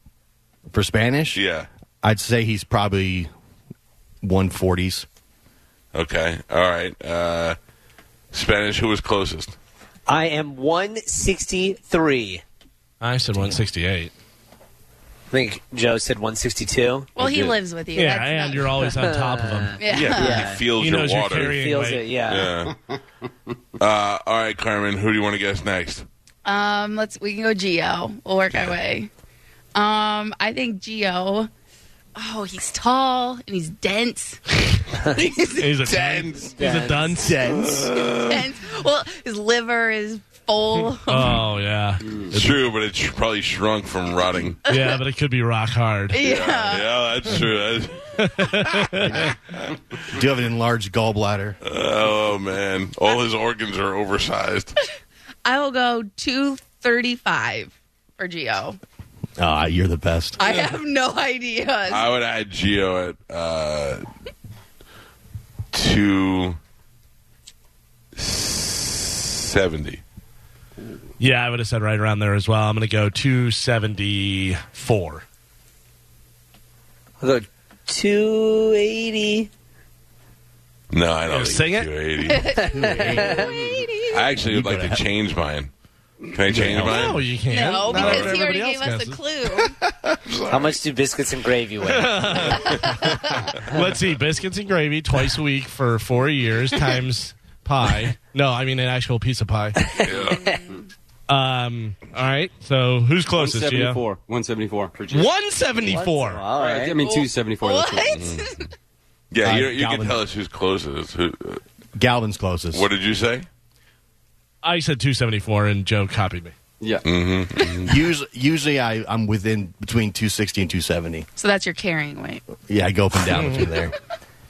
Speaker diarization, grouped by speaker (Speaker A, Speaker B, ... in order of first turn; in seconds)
Speaker A: 0.7-1.4, 2.0-3.3, 4.2-5.1, 50.1-51.6, 59.4-60.4, 82.7-83.6, 84.5-85.0, 86.5-87.0, 109.4-110.2, 112.0-112.9, 117.8-121.3, 122.6-124.0
Speaker B: 1.3-1.7, 5.9-7.6, 8.3-9.6, 19.9-21.6, 22.3-22.8, 23.8-26.1, 35.9-36.6, 37.3-38.5, 42.3-44.6, 46.2-48.6, 51.6-54.8, 60.4-60.7, 61.9-64.0, 65.7-66.6, 68.2-70.0, 80.9-82.5, 84.1-85.7, 86.3-87.2, 87.8-88.3, 90.1-90.8, 92.5-93.0, 100.0-100.4, 108.1-108.4, 109.3-111.6, 112.7-113.5, 117.0-118.0
Speaker C: 10.1-12.4, 15.3-17.6, 18.8-20.6, 21.5-22.5, 36.6-37.1, 77.2-79.5, 82.6-83.5, 90.5-92.4, 105.8-107.0
Speaker D: 13.0-14.1, 17.9-19.8, 20.7-22.0, 35.6-37.9, 41.1-42.6, 44.7-46.2, 48.2-49.3, 71.2-75.2, 81.3-81.9, 86.5-89.2, 91.8-99.8, 101.3-104.0, 105.1-106.4, 114.6-116.5, 123.3-123.7
Speaker E: 17.1-18.7, 19.8-20.5, 26.4-29.1, 29.8-31.5, 32.2-34.4, 35.0-35.8, 38.0-41.4, 46.1-46.9, 55.5-58.8, 60.4-62.1, 82.2-84.3, 87.5-89.8, 92.7-93.4, 107.0-108.7, 121.4-122.5
Speaker F: 103.4-105.3, 106.5-108.2, 116.8-117.1